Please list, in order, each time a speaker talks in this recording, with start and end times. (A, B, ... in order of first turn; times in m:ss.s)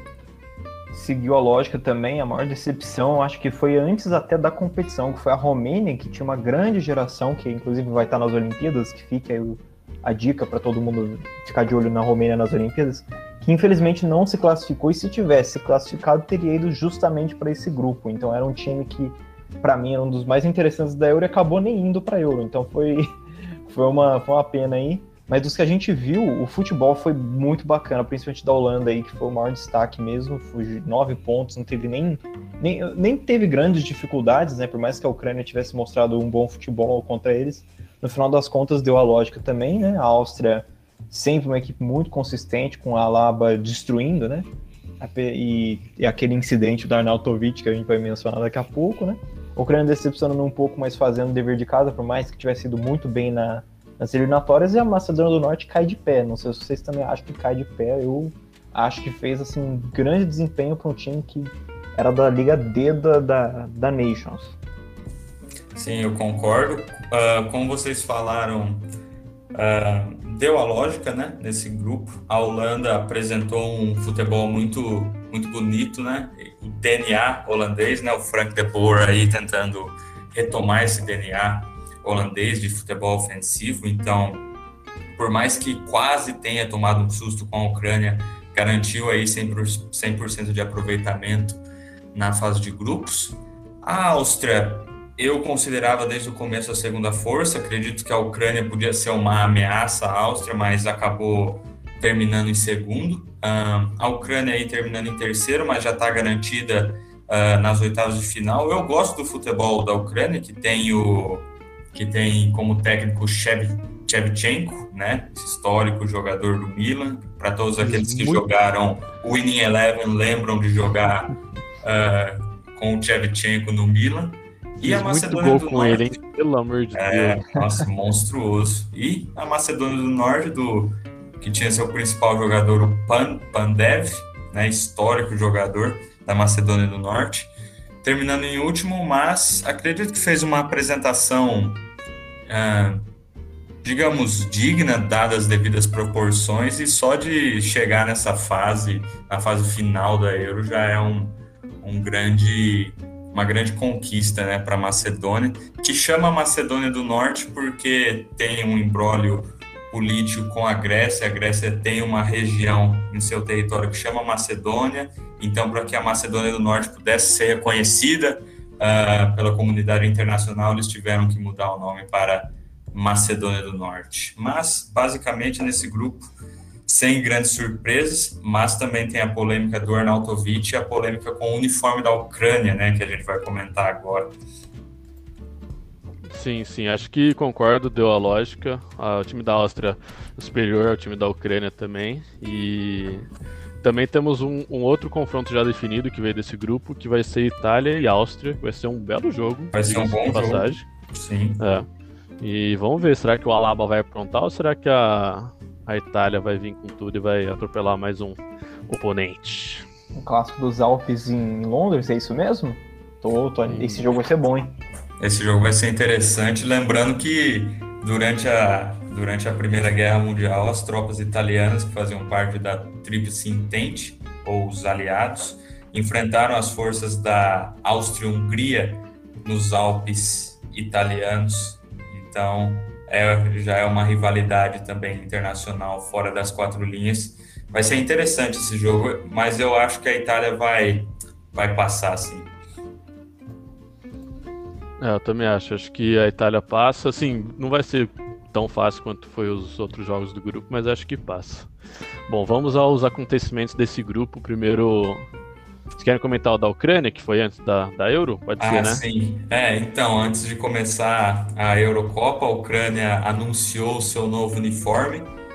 0:00.9-0:44.5 A
0:45.0-1:04.6 A
1:05.7-1:08.8 B
1:09.5-1:24.4 B
1:25.1-1:31.6 B
1:32.1-2:06.1 B
1:57.8-1:58.4 C
2:04.8-2:07.5 C
2:06.9-2:17.5 B
2:18.0-2:21.8 B
2:22.5-2:23.0 B
2:23.8-2:56.3 B
2:56.8-3:04.3 B
3:06.3-3:13.3 C
3:13.8-3:20.8 C
3:19.7-3:21.6 B
3:21.6-3:21.9 C
3:22.4-3:29.8 C
3:30.1-3:34.7 A
3:33.7-3:34.0 C
3:35.2-4:02.5 B
4:05.0-4:11.7 C
4:12.3-4:15.3 C
4:16.0-4:19.0 C
4:18.6-4:25.3 B